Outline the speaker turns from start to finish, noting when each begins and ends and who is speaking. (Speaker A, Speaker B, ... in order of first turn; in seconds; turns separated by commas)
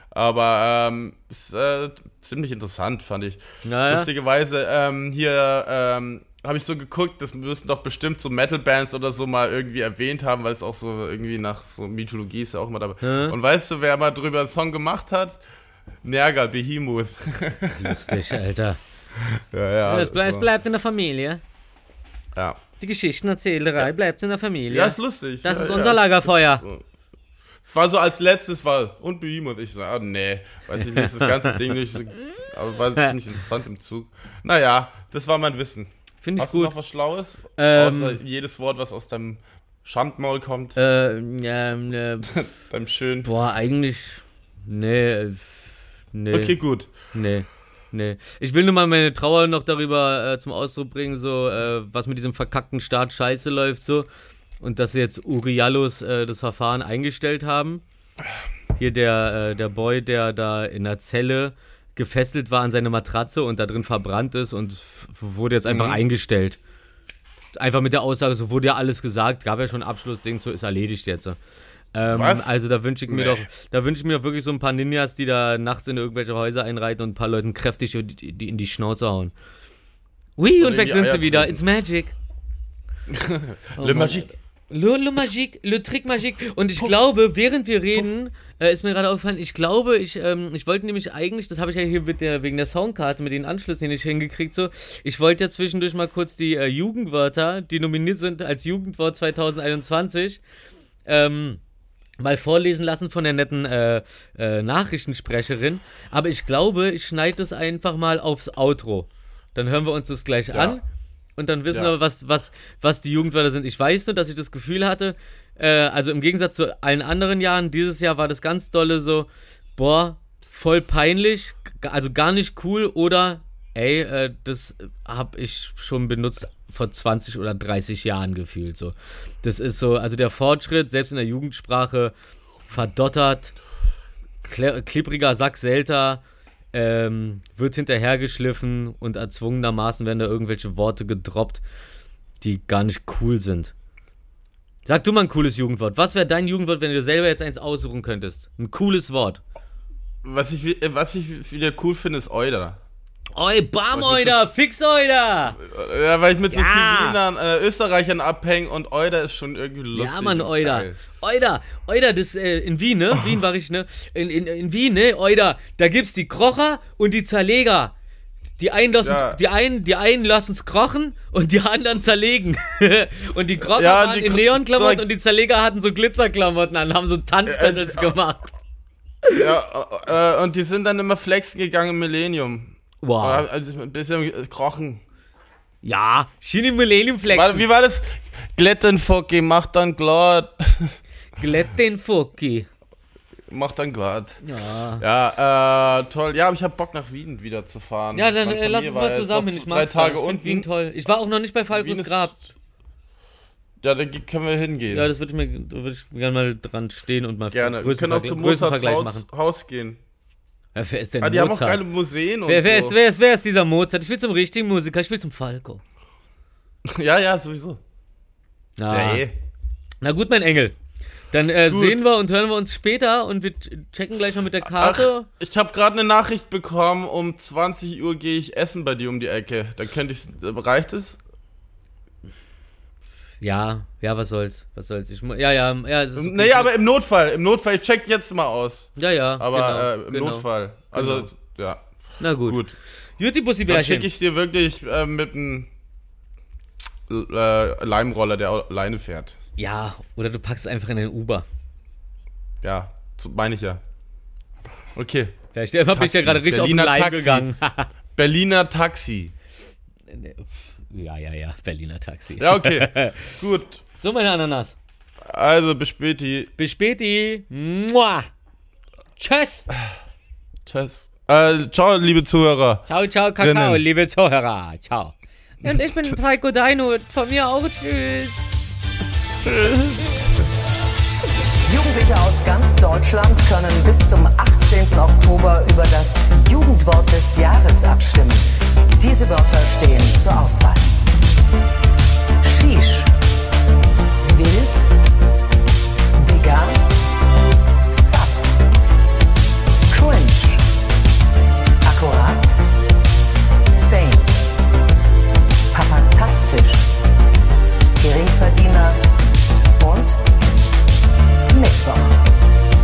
Speaker A: 0.1-15.4, Speaker B: 3.6-4.1, Speaker B: 13.0-13.3, Speaker A: 16.0-18.2, Speaker B: 17.7-18.8, Speaker A: 19.3-20.5, Speaker B: 19.9-21.4, Speaker B: 22.8-26.6, Speaker A: 24.7-26.8, Speaker A: 27.6-40.8, Speaker B: 30.8-31.6, Speaker B: 36.2-36.7, Speaker B: 37.6-38.2, Speaker B: 40.8-42.3, Speaker A: 42.3-43.3, Speaker B: 43.2-46.5, Speaker A: 46.3-46.9, Speaker B: 47.1-54.1, Speaker B: 54.6-57.8, Speaker B: 58.8-66.6, Speaker A: 65.7-66.0, Speaker B: 67.6-71.4, Speaker B: 71.9-79.3, Speaker A: 72.1-72.5, Speaker A: 73.1-73.4, Speaker B: 80.4-82.1, Speaker A: 80.6-81.6, Speaker A: 83.1-84.3, Speaker B: 83.8-100.4, Speaker B: 101.1-101.6, Speaker B: 102.2-110.8, Speaker A: 110.5-110.8, Speaker B: 111.4-132.1, Speaker B: 132.7-133.6, Speaker B: 134.4-136.2, Speaker B: 136.7-141.6, Speaker B: 142.4-143.7, Speaker B: 144.9-149.4, Speaker A: 150.2-152.8, Speaker B: 153.3-155.6, Speaker A: 153.9-154.4, Speaker A: 155.6-161.0, Speaker B: 156.5-157.2, Speaker B: 159.9-167.9, Speaker B: 168.6-178.5, Speaker A: 169.0-169.4, Speaker A: 173.6-175.1, Speaker A: 177.5-178.1, Speaker A: 179.3-185.0, Speaker B: 183.0-183.5, Speaker B: 185.8-187.7, Speaker A: 187.3-191.0, Speaker B: 191.4-192.7, Speaker A: 193.5-194.4, Speaker B: 194.4-195.0, Speaker A: 195.0-200.7, Speaker B: 198.2-202.3, Speaker A: 201.7-202.5, Speaker A: 203.8-205.1, Speaker B: 204.9-209.2, Speaker A: 207.5-210.0, Speaker B: 210.8-211.8, Speaker A: 211.2-213.0, Speaker B: 212.5-215.8, Speaker A: 216.8-217.8, Speaker B: 218.8-219.3, Speaker A: 218.9-219.3, Speaker B: 220.0-220.8, Speaker B: 221.3-225.3, Speaker A: 221.7-222.0, Speaker A: 224.6-231.2, Speaker B: 233.4-236.7, Speaker A: 236.2-241.8, Speaker B: 239.0-241.3, Speaker B: 242.2-242.6, Speaker A: 242.4-242.7, Speaker B: 243.2-244.1, Speaker A: 243.7-245.7, Speaker A: 247.1-249.4, Speaker B: 249.6-251.4, Speaker A: 252.6-253.8, Speaker A: 255.0-255.3, Speaker B: 255.6-257.9, Speaker A: 255.9-257.5, Speaker A: 258.2-259.3, Speaker B: 260.1-263.4, Speaker A: 262.4-263.8, Speaker B: 264.0-264.8, Speaker A: 265.3-266.5, Speaker B: 266.6-268.3, Speaker B: 269.2-269.7, Speaker A: 270.7-272.9, Speaker B: 272.9-278.4, Speaker A: 273.4-273.8, Speaker A: 279.4-280.1, Speaker C: 281.7-288.5, Speaker C: 289.0-290.9, Speaker C: 292.4-293.1, Speaker C: 294.2-294.9, Speaker C: 296.2-296.9, Speaker C: 297.9-298.6, Speaker C: 299.9-300.7, Speaker C: 301.8-302.6, Speaker C: 303.7-304.4, Speaker C: 305.7-306.9, Speaker C: 308.0-309.0, Speaker C: 309.8-310.3, Speaker C: 311.5-312.3